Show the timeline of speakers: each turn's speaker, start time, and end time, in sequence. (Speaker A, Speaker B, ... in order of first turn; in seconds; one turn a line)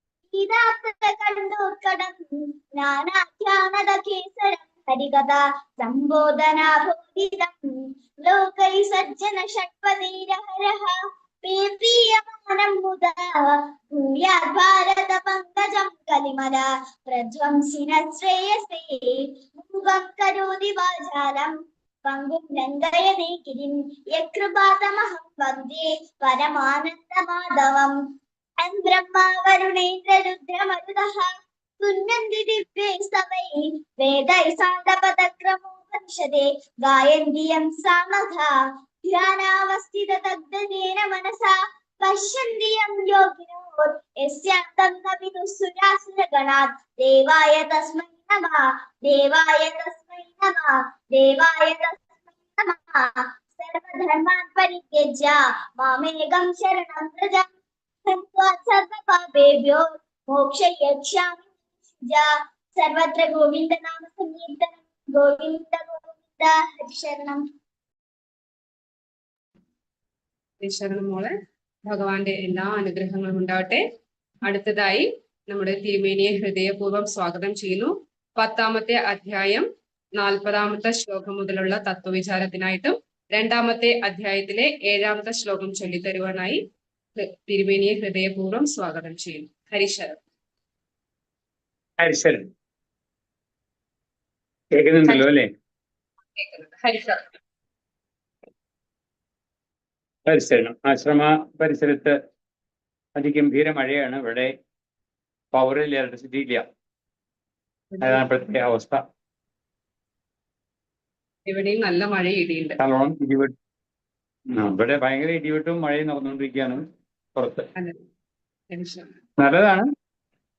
Speaker A: 0.3-28.0
Speaker A: 28.6-52.0
Speaker A: 52.6-57.5
Speaker A: 58.0-67.4
Speaker B: 70.6-71.3
Speaker B: 71.9-73.8
Speaker B: 74.5-86.6
Speaker B: 87.2-90.2
Speaker C: 92.0-92.5
Speaker C: 94.7-95.5
Speaker B: 96.3-97.2
Speaker C: 100.3-102.2
Speaker C: 103.2-104.5
Speaker C: 105.5-106.6
Speaker B: 107.9-108.2
Speaker C: 108.0-109.0
Speaker B: 111.5-112.8
Speaker C: 112.8-113.5
Speaker C: 114.5-116.8
Speaker C: 117.3-117.7
Speaker B: 118.7-119.1
Speaker C: 119.4-119.9